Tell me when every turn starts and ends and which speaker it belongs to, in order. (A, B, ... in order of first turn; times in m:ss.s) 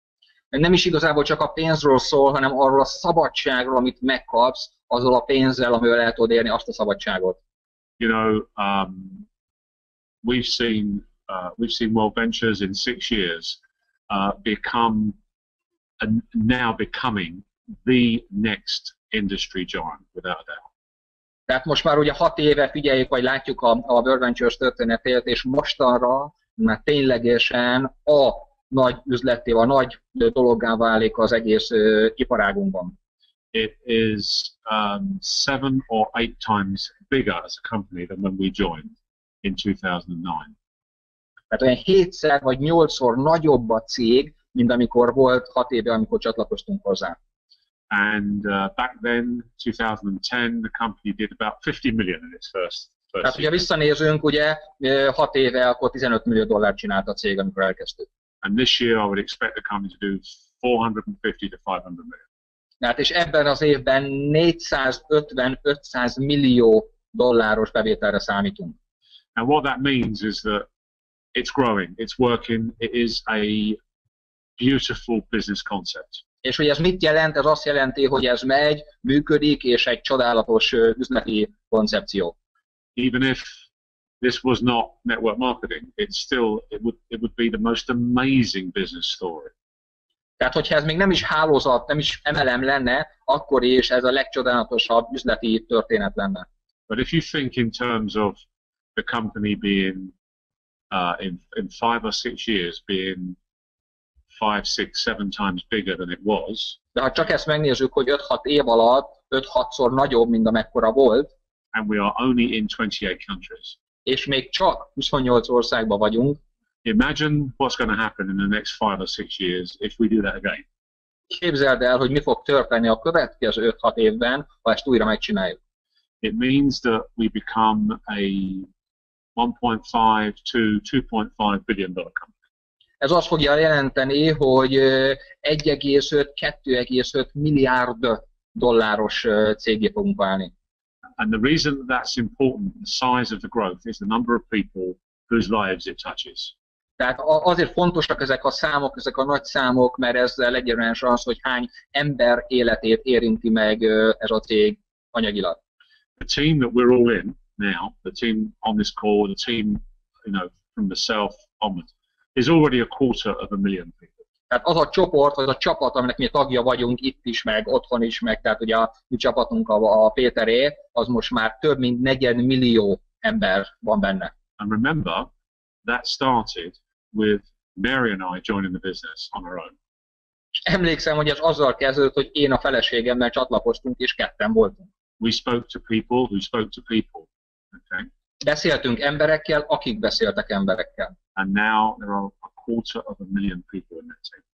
0:00.5-0:07.4 A
0:08.0-0:09.2 B
0:10.2-0:13.6 B
0:14.1-0:15.2 B
0:16.0-0:20.7 B
0:21.5-0:32.9 A
0:33.5-0:40.5 B
0:41.5-0:47.2 A
0:47.9-0:53.6 B
0:53.2-0:58.1 A
0:58.4-1:02.2 B
1:02.8-1:08.7 A
1:09.4-1:10.7 B
1:11.3-1:13.8 B
1:14.6-1:16.2 B
1:16.4-1:22.3 A
1:23.0-1:23.6 B
1:24.2-1:29.5 B
1:30.4-1:36.4 A
1:36.9-1:38.4 B
1:39.0-1:40.1 B
1:40.9-1:43.4 B
1:44.3-1:46.8 B
1:46.9-1:51.3 A
1:51.7-1:53.8 B
1:54.0-1:56.4 A
1:56.8-2:00.6 B
2:01.3-2:05.6 A
2:06.2-2:08.7 B
2:09.4-2:12.3 B
2:13.0-2:20.5 A
2:21.2-2:26.5 B
2:27.0-2:35.6 A
2:36.2-2:44.2 B
2:44.5-2:54.3 A
2:54.6-2:55.3 B
2:55.8-2:59.7 B
3:00.6-3:04.9 A
3:05.2-3:08.1 B
3:08.4-3:11.1 A
3:11.4-3:14.4 B